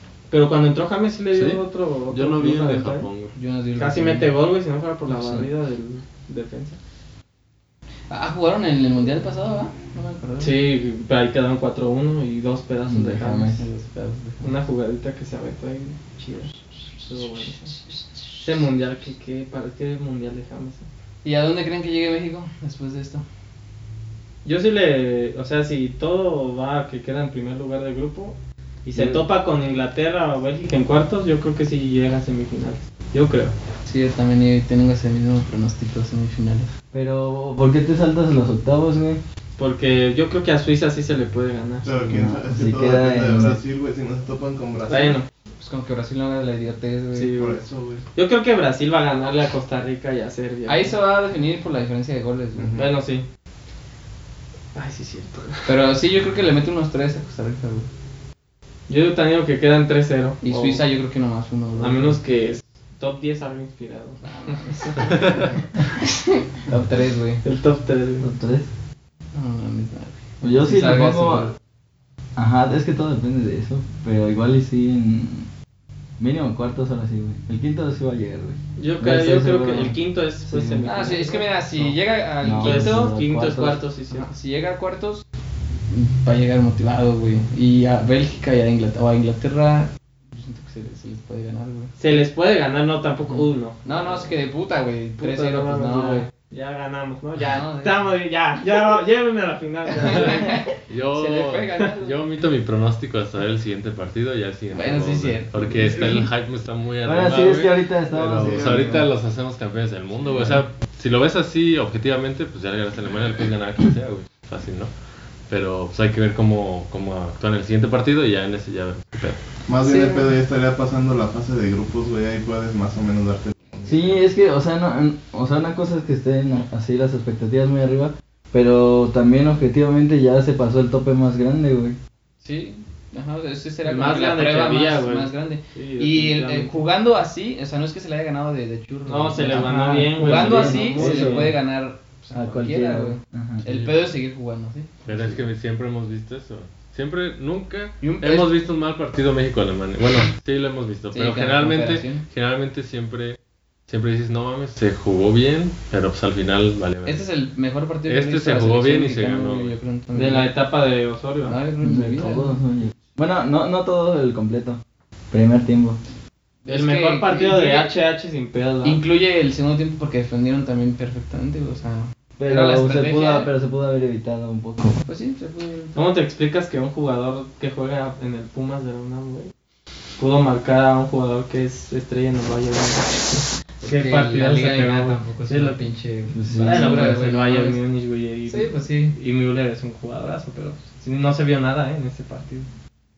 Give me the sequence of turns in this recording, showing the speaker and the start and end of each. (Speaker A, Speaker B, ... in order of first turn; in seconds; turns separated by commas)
Speaker A: 0.3-3.1, Speaker B: 1.3-3.3, Speaker C: 3.3-4.3, Speaker A: 3.8-6.8, Speaker C: 5.1-5.5, Speaker C: 8.1-10.6, Speaker A: 10.4-13.6, Speaker D: 12.8-13.6, Speaker C: 13.5-14.5, Speaker A: 14.4-17.7, Speaker A: 18.3-20.9, Speaker C: 21.2-23.2, Speaker A: 24.4-33.5, Speaker D: 28.9-29.2, Speaker C: 33.8-36.7, Speaker D: 36.9-39.2, Speaker A: 39.6-42.1, Speaker E: 41.8-45.2, Speaker D: 42.1-43.6, Speaker A: 44.9-45.2, Speaker C: 45.6-47.3, Speaker A: 47.1-47.6, Speaker E: 47.3-48.0, Speaker A: 48.1-50.9, Speaker C: 50.6-52.8, Speaker E: 52.5-52.9, Speaker A: 52.7-53.2, Speaker A: 54.7-55.7, Speaker C: 55.6-57.9, Speaker A: 58.9-60.8, Speaker C: 60.4-62.2, Speaker A: 61.8-65.2, Speaker C: 64.2-65.5, Speaker C: 66.0-67.4, Speaker A: 67.4-68.3, Speaker D: 68.2-68.7, Speaker C: 69.3-71.5, Speaker D: 70.4-71.5, Speaker D: 72.3-75.5, Speaker D: 76.2-81.0, Speaker A: 78.8-81.9, Speaker C: 80.8-83.1, Speaker D: 82.4-83.8, Speaker A: 82.6-84.3, Speaker C: 84.1-85.2, Speaker C: 85.9-92.0, Speaker A: 92.0-94.4, Speaker C: 93.3-96.3, Speaker A: 95.2-100.7, Speaker C: 97.4-98.0, Speaker C: 100.0-102.4, Speaker B: 100.8-119.4, Speaker C: 104.7-106.3, Speaker D: 107.0-109.0, Speaker E: 108.2-109.1, Speaker E: 119.7-124.2, Speaker C: 119.8-120.3, Speaker D: 123.8-132.0, Speaker C: 132.4-144.9, Speaker A: 133.8-136.8, Speaker A: 139.1-141.5, Speaker D: 139.4-141.6, Speaker D: 142.3-143.6, Speaker B: 143.6-144.1, Speaker B: 145.1-157.3, Speaker C: 148.0-148.5, Speaker C: 151.1-152.2, Speaker C: 157.0-160.5, Speaker B: 158.1-159.8, Speaker A: 160.1-161.6, Speaker C: 161.4-162.6, Speaker D: 161.8-164.8, Speaker D: 165.3-166.0, Speaker C: 166.6-167.9, Speaker A: 166.7-169.0, Speaker C: 168.8-173.5, Speaker D: 172.4-175.0, Speaker C: 175.0-176.0, Speaker A: 175.9-179.5, Speaker A: 180.2-185.8, Speaker C: 183.8-187.8, Speaker D: 186.3-187.2, Speaker A: 186.6-192.7, Speaker C: 188.5-189.1